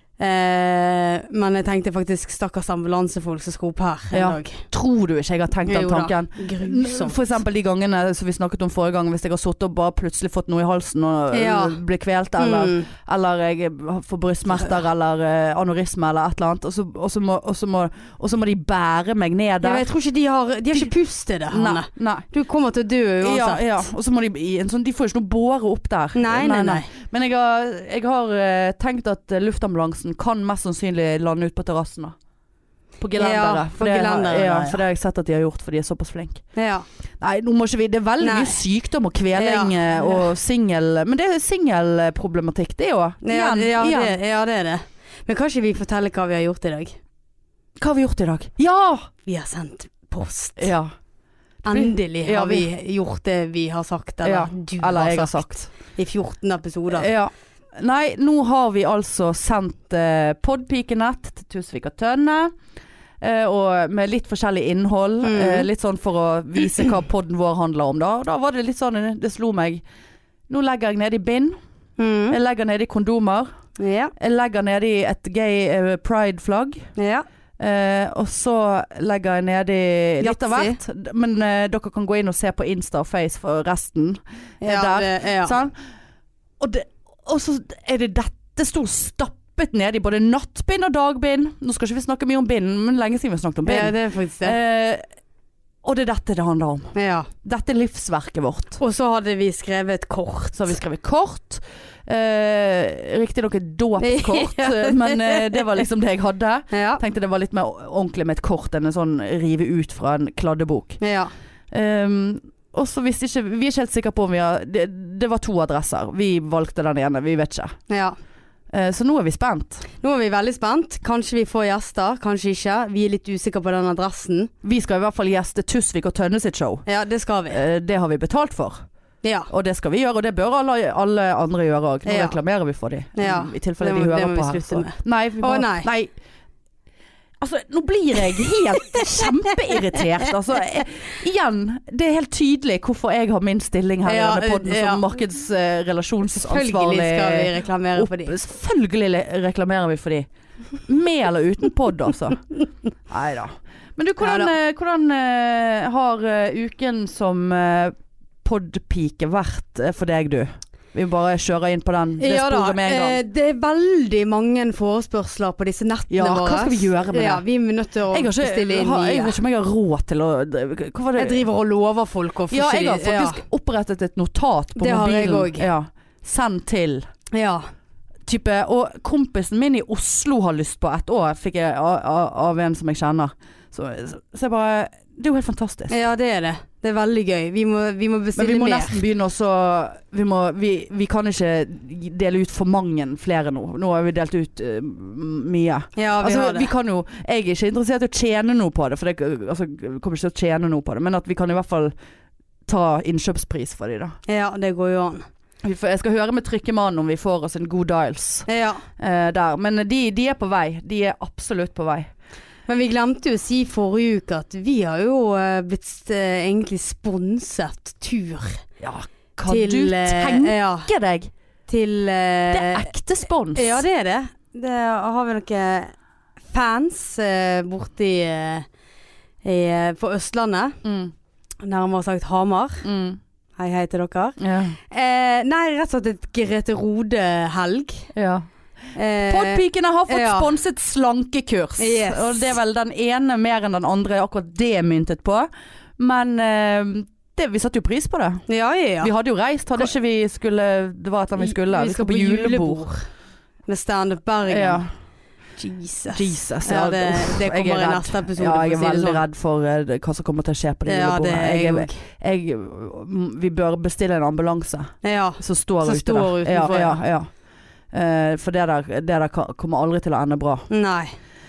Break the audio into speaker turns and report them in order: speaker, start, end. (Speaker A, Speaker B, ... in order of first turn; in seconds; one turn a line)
Speaker A: 0.2-4.7
Speaker B: 4.1-19.9
Speaker A: 5.7-7.2
Speaker A: 11.3-11.8
Speaker A: 12.4-12.9
Speaker A: 19.6-23.9
Speaker B: 21.5-22.3
Speaker B: 23.2-32.1
Speaker A: 26.1-26.9
Speaker B: 33.0-36.4
Speaker A: 33.2-34.8
Speaker A: 36.5-36.9
Speaker B: 37.2-44.2
Speaker A: 38.2-38.6
Speaker A: 39.4-40.3
Speaker A: 43.2-47.0
Speaker B: 47.8-49.1
Speaker A: 49.3-50.7
Speaker B: 50.6-50.9
Speaker A: 51.6-57.1
Speaker B: 51.7-52.7
Speaker B: 54.2-55.7
Speaker B: 56.9-62.5
Speaker B: 63.2-69.8
Speaker A: 65.2-65.7
Speaker B: 70.5-71.6
Speaker A: 72.0-72.4
Speaker B: 72.3-73.5
Speaker A: 73.8-74.1
Speaker B: 74.2-76.9
Speaker A: 77.0-77.2
Speaker B: 77.6-85.8
Speaker A: 80.2-80.8
Speaker A: 84.6-85.6
Speaker B: 86.6-95.0
Speaker A: 93.7-94.6
Speaker B: 95.8-98.8
Speaker A: 97.0-97.3
Speaker A: 98.8-100.8
Speaker B: 100.5-111.0
Speaker A: 104.0-105.6
Speaker A: 106.7-107.0
Speaker A: 111.0-111.3
Speaker B: 111.7-117.8
Speaker A: 117.9-118.2
Speaker B: 118.7-119.9
Speaker A: 120.0-124.5
Speaker B: 124.6-126.8
Speaker A: 126.9-127.6
Speaker B: 127.5-128.8
Speaker A: 129.2-129.5
Speaker B: 129.5-136.1
Speaker A: 132.1-132.4
Speaker A: 133.2-135.9
Speaker B: 137.4-150.3
Speaker A: 144.1-145.1
Speaker A: 146.3-148.3
Speaker B: 150.9-152.4
Speaker B: 153.1-163.2
Speaker A: 154.2-154.5
Speaker A: 162.2-169.4
Speaker B: 166.1-167.4
Speaker B: 168.1-171.4
Speaker A: 171.2-173.4
Speaker B: 172.5-177.1
Speaker A: 174.8-175.7
Speaker A: 177.3-177.7
Speaker B: 178.3-186.0
Speaker A: 185.9-189.0
Speaker B: 188.4-201.9
Speaker A: 196.0-196.7
Speaker B: 202.7-204.2
Speaker A: 204.3-205.3
Speaker B: 205.6-208.5
Speaker A: 208.5-208.8
Speaker B: 209.0-212.1
Speaker A: 212.7-218.6
Speaker B: 218.8-221.3
Speaker A: 219.5-220.9
Speaker A: 221.7-222.9
Speaker B: 222.5-223.8
Speaker A: 223.6-225.9
Speaker A: 226.5-228.7
Speaker A: 229.4-230.8
Speaker B: 230.8-231.1
Speaker A: 231.6-232.9
Speaker B: 232.8-233.2
Speaker A: 233.6-238.1
Speaker B: 234.4-234.8
Speaker B: 238.2-238.5
Speaker A: 238.9-240.5
Speaker B: 239.3-248.4
Speaker A: 241.8-242.5
Speaker A: 248.5-249.1
Speaker B: 249.0-252.9
Speaker A: 251.4-253.1
Speaker A: 253.7-254.8
Speaker B: 254.5-254.9
Speaker A: 255.6-259.2
Speaker B: 256.1-267.3
Speaker A: 260.9-262.0
Speaker A: 265.0-267.0
Speaker B: 267.9-270.6
Speaker A: 270.7-271.1